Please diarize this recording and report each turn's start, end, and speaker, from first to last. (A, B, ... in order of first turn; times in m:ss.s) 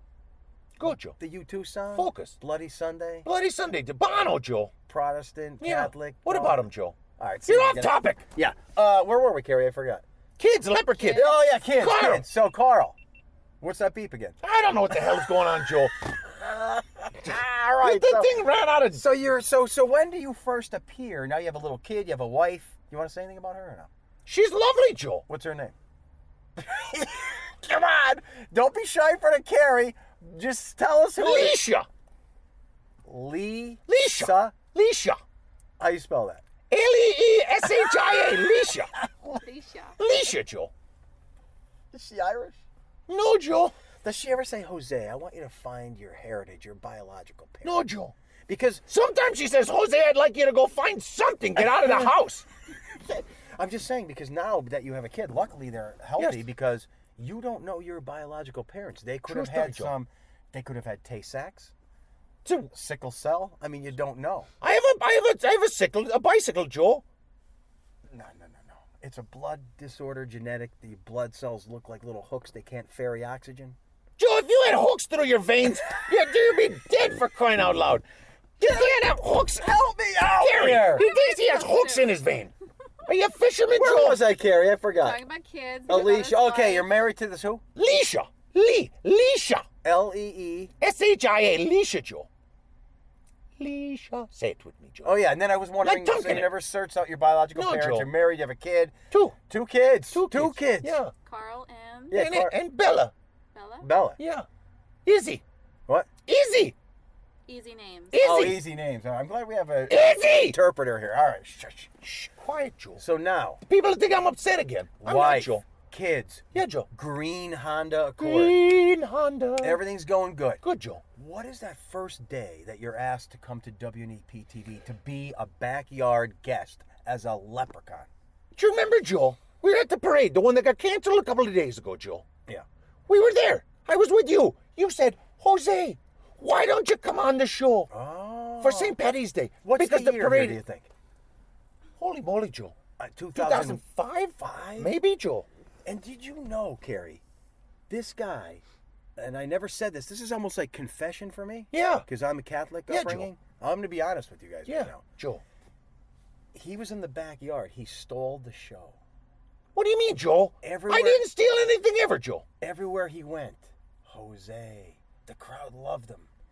0:00.8-0:01.2 A
0:01.2-0:03.3 B
0:02.0-0:02.4 A
0:03.2-0:04.7 A
0:04.9-0:10.0 B
0:05.6-0:08.2 A
0:10.4-0:12.2 A
0:11.0-0:11.4 C
0:11.0-0:13.0 B
0:13.6-0:14.4 B
0:14.4-0:16.0 A
0:16.2-0:23.9 B
0:17.2-0:19.0 A
0:24.3-0:25.2 A
0:25.3-0:25.8 B
0:26.6-0:31.7 B
0:31.2-0:31.9 A
0:33.0-0:34.6 B
0:33.9-0:35.2 A
0:35.8-0:36.4 B
0:36.7-0:38.9 A
0:39.0-0:39.4 B
0:39.4-0:40.0 C
0:40.0-0:40.7 A
0:41.9-0:42.6 B
0:43.1-0:43.7 A
0:44.0-0:47.8 B
0:47.6-0:48.1 A
0:48.5-0:48.8 B
0:48.9-0:52.4 A
0:51.6-0:52.2 B
0:52.8-1:01.7 B
0:59.3-0:59.9 A
1:02.4-1:02.7 A
1:02.7-1:04.5 B
1:04.6-1:07.0 A
1:08.1-1:13.8 B
1:14.2-1:18.1 A
1:18.6-1:19.8 A
1:18.6-1:21.1 B
1:20.3-1:22.5 A
1:20.9-1:22.2 C
1:23.1-1:24.2 A
1:23.8-1:25.2 B
1:25.0-1:26.9 C
1:25.9-1:27.6 B
1:27.8-1:29.7 A
1:29.8-1:30.7 B
1:30.8-1:32.3 A
1:33.6-1:35.2 A
1:35.0-1:41.0 B
1:35.8-1:36.5 A
1:37.6-1:38.1 A
1:39.1-1:39.4 A
1:40.1-1:41.1 A
1:41.2-1:42.2 C
1:42.1-1:42.6 B
1:42.1-1:43.1 A
1:43.5-1:43.9 C
1:43.8-1:44.2 B
1:44.2-1:44.5 A
1:45.1-1:45.4 A
1:46.3-1:46.8 A
1:47.5-1:48.4 C
1:48.1-1:48.7 A
1:48.2-1:51.9 B
1:49.9-1:50.6 A
1:52.0-1:53.0 A
1:53.0-1:53.6 B
1:53.7-1:55.6 A
1:55.0-1:58.6 B
1:56.5-1:56.9 A
1:58.2-1:59.8 A
1:59.6-2:00.6 B
2:00.6-2:01.0 A
2:01.1-2:08.1 B
2:08.5-2:12.3 A
2:13.1-2:17.9 A
2:17.9-2:19.0 B
2:18.6-2:20.6 A
2:19.6-2:20.9 B
2:22.0-2:22.8 A
2:23.0-2:23.8 B
2:23.4-2:25.5 A
2:24.4-2:24.9 B
2:25.9-2:27.2 B
2:27.9-2:28.6 B
2:29.2-2:35.0 B
2:31.7-2:32.0 A
2:32.9-2:33.3 A
2:34.7-2:35.4 A
2:36.5-2:39.0 B
2:39.8-2:42.4 A
2:40.6-2:41.2 B
2:42.6-2:46.3 B